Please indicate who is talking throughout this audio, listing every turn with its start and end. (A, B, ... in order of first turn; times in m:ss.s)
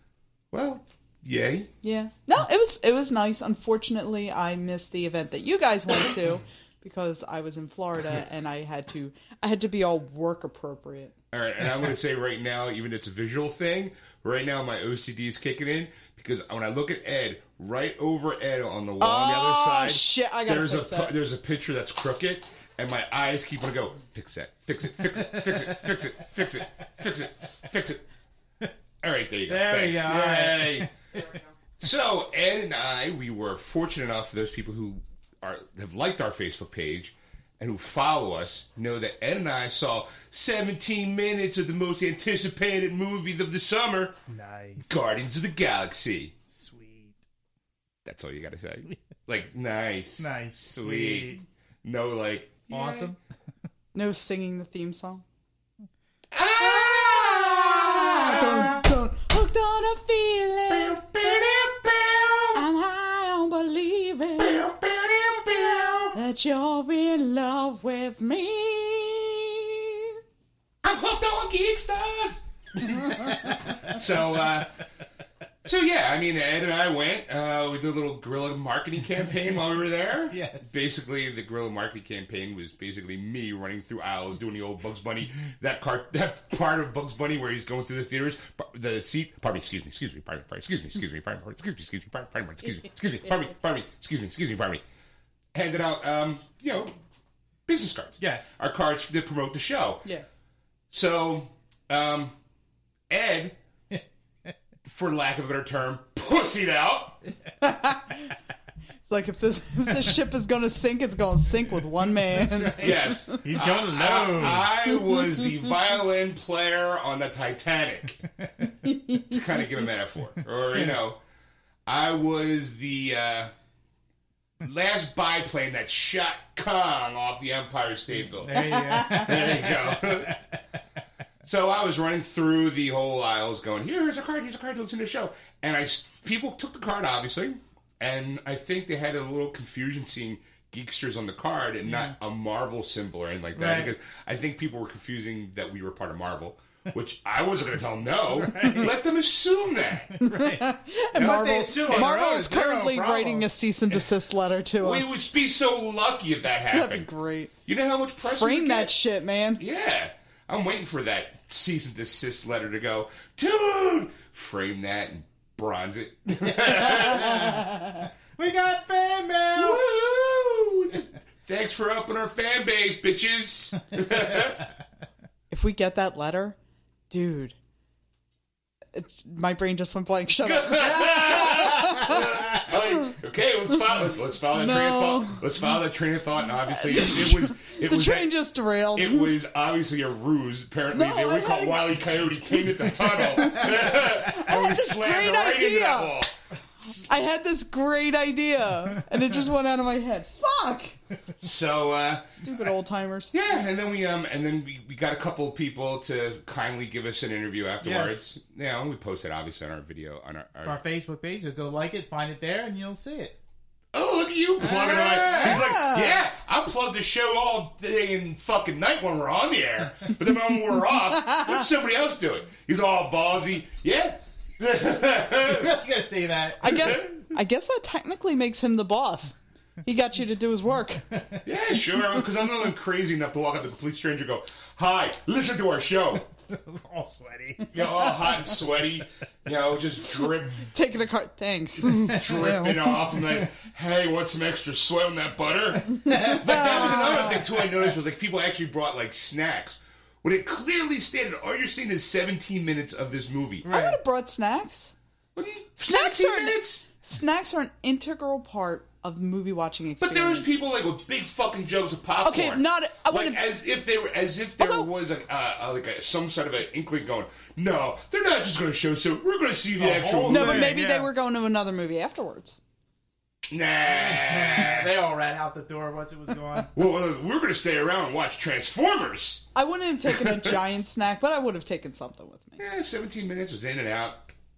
0:00.5-0:01.7 A
0:01.8-0:11.2 B
0:11.3-0:28.0 A
0:19.0-0:21.2 B
0:25.2-0:26.0 C
0:29.0-0:30.9 A
0:29.5-0:31.2 C
0:31.8-0:44.2 A
0:44.3-0:45.0 C
0:44.9-0:46.4 A
0:46.5-0:47.2 C
0:48.0-0:53.1 A
0:50.2-0:51.4 C
0:52.7-0:53.2 C
0:53.9-0:55.2 B
0:56.3-0:58.8 A
0:56.6-1:01.2 B
0:58.3-0:58.7 C
1:00.7-1:02.6 A
1:02.5-1:04.6 B
1:04.4-1:06.2 A
1:06.1-1:10.2 B
1:10.8-1:14.7 A
1:15.6-1:34.8 A
1:20.3-1:20.7 C
1:35.5-1:36.9 A
1:37.7-1:40.1 A
1:38.2-1:38.6 C
1:40.9-1:42.4 A
1:43.1-1:43.6 A
1:44.8-1:47.2 A
1:47.6-1:48.3 B
1:49.1-1:53.4 B
1:52.1-1:54.7 C
1:52.8-1:58.2 A
1:58.4-1:58.7 C
1:58.8-1:59.4 B
1:59.2-2:01.2 A
2:01.9-2:03.5 A
2:04.6-2:10.4 A
2:08.2-2:10.6 C
2:08.5-2:09.4 B
2:11.4-2:30.2 A
2:21.8-2:22.2 C
2:23.6-2:23.9 C
2:28.3-2:28.9 C
2:30.1-2:33.5 C
2:30.2-2:35.2 B
2:31.1-2:32.2 A
2:34.8-2:37.1 A
2:36.7-2:37.5 B
2:37.7-2:39.0 A
2:38.3-2:39.6 B
2:39.6-2:47.6 A
2:46.7-2:49.8 C
2:49.5-2:54.6 A
2:55.5-2:56.6 B
2:57.1-2:57.6 B
2:58.9-3:03.1 B
3:00.4-3:08.3 A
3:01.0-3:02.6 C
3:04.5-3:05.4 B
3:06.7-3:09.4 B
3:09.0-3:17.0 A
3:10.9-3:11.9 B
3:12.8-3:16.2 B
3:16.9-3:21.0 B
3:21.4-3:22.4 A
3:22.3-3:23.4 B
3:23.3-3:30.8 A
3:27.8-3:28.2 C
3:30.6-3:33.4 C
3:33.9-3:45.8 A
3:34.6-3:35.7 C
3:35.3-3:36.2 B
3:45.4-3:47.0 C
3:46.6-3:51.2 B
3:46.7-3:47.2 A
3:51.1-3:51.4 C
3:51.4-3:56.3 A
3:56.5-3:57.8 C
3:57.7-4:00.7 A
4:00.7-4:03.0 B
4:01.8-4:13.7 A
4:06.0-4:07.8 C
4:06.2-4:07.4 B
4:13.6-4:14.0 C
4:13.7-4:14.9 B
4:15.4-4:16.8 A
4:15.8-4:20.5 B
4:20.0-4:30.7 A
4:22.2-4:23.4 B
4:24.6-4:24.9 B
4:29.8-4:31.1 C
4:30.3-4:32.6 B
4:33.5-4:35.0 A
4:33.9-4:36.7 C
4:36.7-4:39.5 A
4:39.6-4:42.6 B
4:40.1-4:40.6 A
4:42.6-4:44.3 A